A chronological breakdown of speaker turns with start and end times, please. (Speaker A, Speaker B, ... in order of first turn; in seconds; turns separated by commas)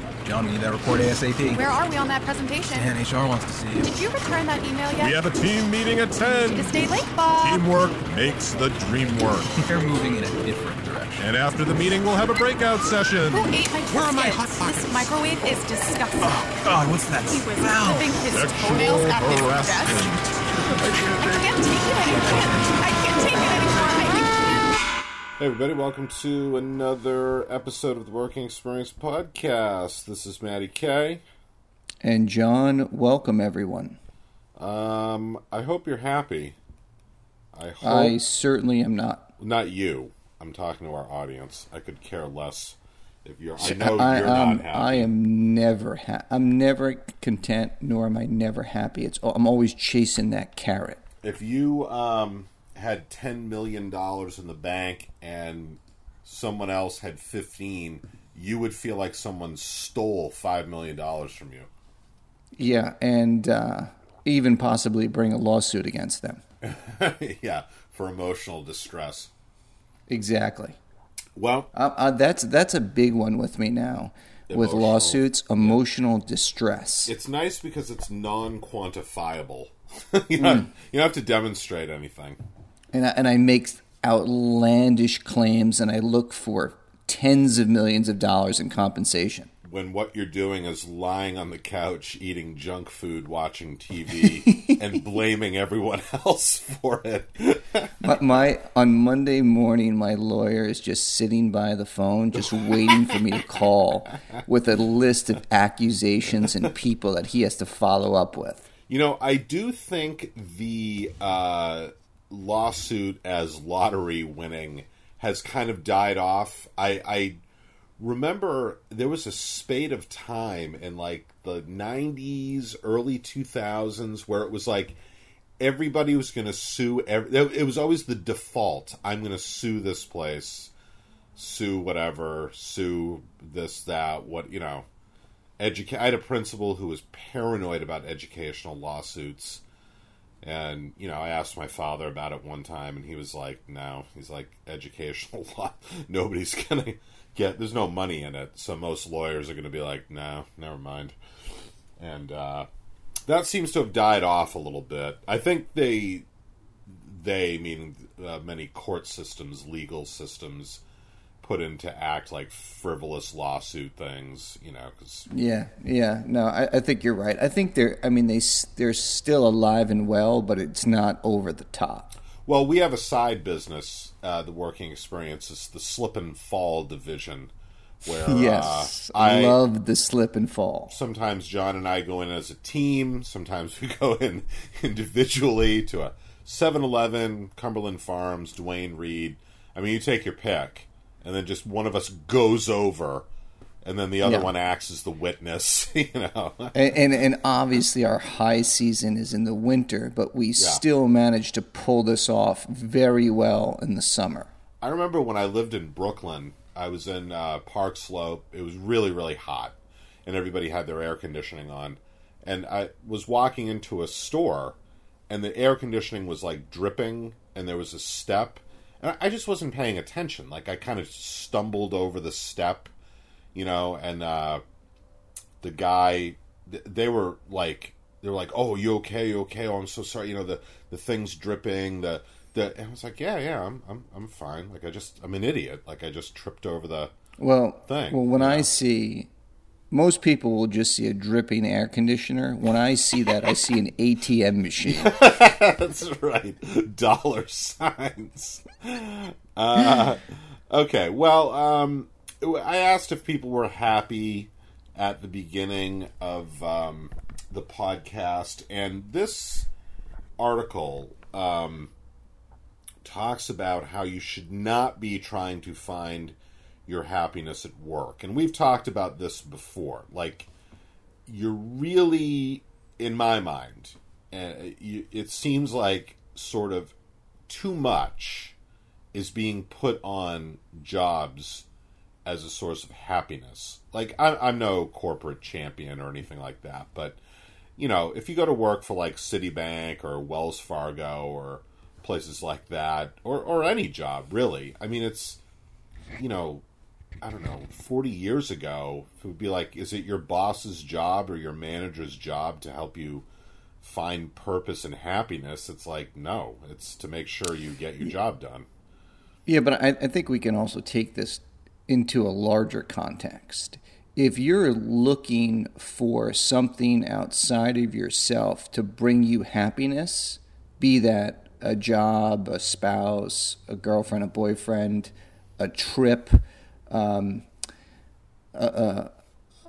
Speaker A: 0.2-1.6, Speaker B: 1.5-3.0, Speaker A: 2.7-4.0, Speaker B: 3.8-5.2, Speaker C: 5.0-6.7, Speaker B: 6.5-7.7, Speaker C: 7.4-9.6, Speaker A: 9.6-11.2, Speaker C: 11.2-15.1, Speaker B: 13.3-20.2, Speaker A: 16.5-18.1, Speaker C: 18.2-21.4, Speaker B: 21.1-24.6, Speaker A: 22.3-22.6, Speaker D: 25.4-31.2, Speaker E: 32.0-34.0, Speaker D: 34.5-36.6, Speaker D: 37.5-38.2, Speaker E: 37.8-39.3, Speaker D: 39.4-45.1, Speaker E: 43.6-51.0, Speaker D: 51.2-61.7, Speaker E: 62.5-66.4, Speaker D: 66.6-69.3, Speaker E: 70.1-70.8, Speaker D: 71.3-71.7, Speaker E: 71.7-77.1, Speaker D: 74.5-75.8, Speaker D: 77.1-82.4, Speaker E: 80.4-80.7, Speaker E: 82.9-89.5, Speaker D: 89.6-98.1, Speaker E: 98.0-108.7, Speaker D: 102.5-103.2, Speaker D: 108.9-117.4, Speaker D: 118.0-125.0, Speaker D: 125.6-130.7, Speaker D: 131.3-134.9, Speaker D: 135.6-139.6, Speaker D: 140.4-151.2, Speaker D: 152.0-152.7, Speaker D: 153.2-156.2, Speaker D: 156.9-160.8, Speaker D: 161.4-165.3, Speaker E: 165.3-172.1, Speaker D: 172.4-177.5, Speaker D: 178.0-179.6, Speaker E: 178.2-180.9, Speaker D: 180.9-193.3, Speaker D: 193.8-196.8, Speaker E: 194.2-194.5, Speaker E: 196.7-204.5, Speaker D: 200.6-200.8, Speaker D: 204.8-214.8, Speaker D: 215.3-222.9, Speaker D: 223.5-224.6, Speaker D: 225.6-237.1, Speaker E: 237.4-239.3, Speaker D: 237.9-238.7, Speaker E: 239.9-245.1, Speaker D: 244.8-259.7, Speaker D: 260.4-261.9, Speaker D: 263.0-270.5, Speaker D: 271.2-276.9, Speaker D: 277.5-278.5, Speaker D: 279.1-281.6, Speaker D: 282.2-287.2, Speaker D: 287.8-295.4, Speaker D: 296.1-296.6, Speaker D: 297.2-303.2, Speaker D: 303.8-308.7, Speaker E: 309.4-327.4, Speaker E: 328.5-329.1